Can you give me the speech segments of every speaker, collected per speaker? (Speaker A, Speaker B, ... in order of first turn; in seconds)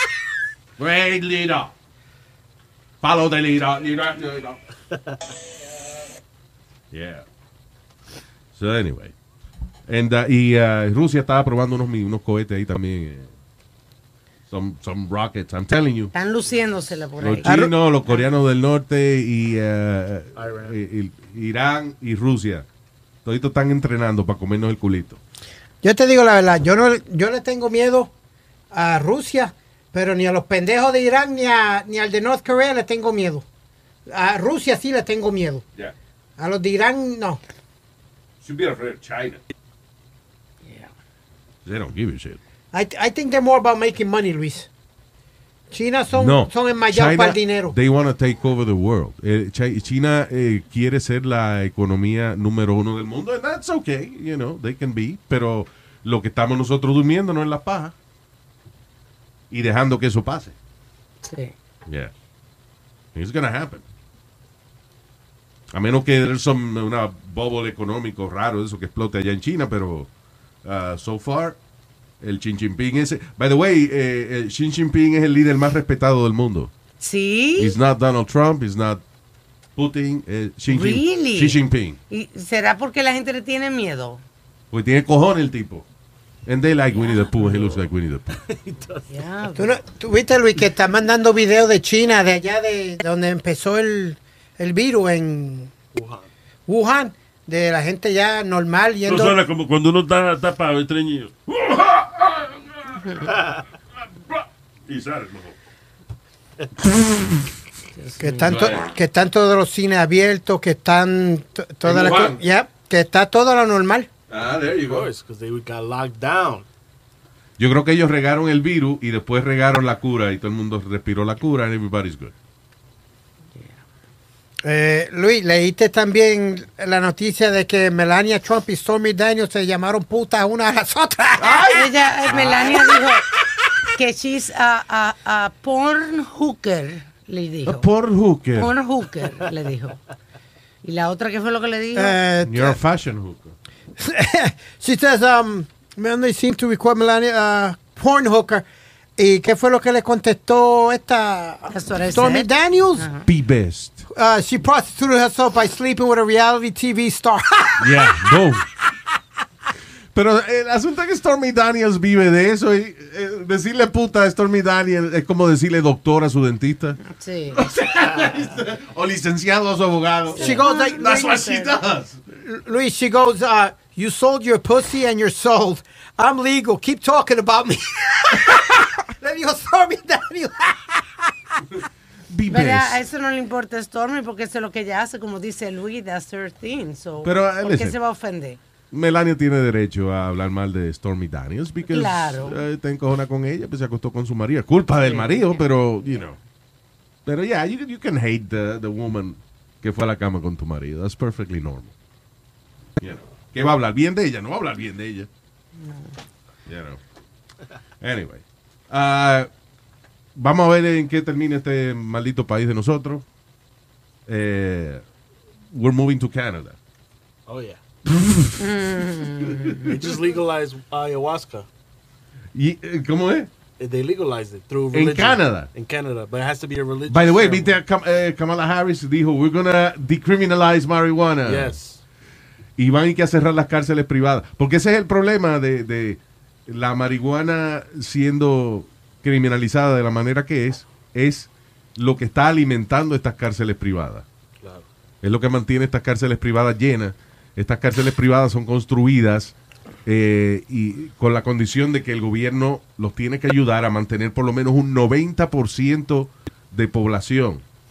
Speaker A: 0.8-1.7, 3.0-4.6, 6.9-7.2, 8.6-9.1, 9.9-13.3, 14.5-16.1, 17.2-22.6, 23.2-25.2, 38.4-39.4, 41.6-42.4, 46.1-57.9, 59.5-60.5, 63.1-63.8, 65.7-70.1, 70.6-71.5, 72.2-76.7, 77.6-79.0, 79.8-82.0, 84.7-85.8, 86.5-88.4, 108.4-108.8, 111.8-112.4, 114.3-115.1, 117.6-122.3, 131.4-132.6, 137.7-138.7, 142.4-143.5, 153.3-154.0, 157.8-158.6, 160.1-167.0, 167.5-172.2, 182.3-183.0, 187.2-187.9, 188.9-196.3, 197.2-201.9, 203.0-205.3, 206.7-207.0, 208.0-209.5, 210.3-213.2, 214.3-215.0, 215.7-216.8, 218.1-218.6, 219.5-219.8, 222.5-223.5, 224.9-225.7, 227.1-231.7, 232.8-244.2, 245.2-249.5, 250.1-257.6
Speaker B: 16.1-17.5, 40.6-40.9, 61.2-61.5, 77.0-77.7, 80.7-81.6, 82.1-84.2, 89.1-89.8, 108.0-108.5, 131.7-133.2, 133.9-137.8, 138.6-140.0, 140.8-142.2, 151.7-153.3, 167.0-167.6, 170.3-171.8, 182.5-188.6, 191.9-192.6, 195.0-196.1, 205.8-206.1, 218.6-220.0
Speaker C: 17.4-17.7, 25.8-28.1, 28.7-33.4, 34.1-35.6, 36.4-37.4, 42.7-44.7, 45.7-47.8, 89.5-95.7, 96.7-99.4, 108.2-114.1, 124.6-131.8, 141.9-142.8, 144.0-148.6, 149.2-153.1, 154.1-158.4, 170.3-171.3, 172.3-181.6
Speaker D: 20.4-20.7, 87.4-87.8, 88.3-89.1, 95.9-96.3, 114.8-116.7, 132.3-132.8, 217.5-217.8, 219.8-221.7, 223.8-227.8, 231.4-232.0
Speaker E: 99.0-103.0, 104.3-105.5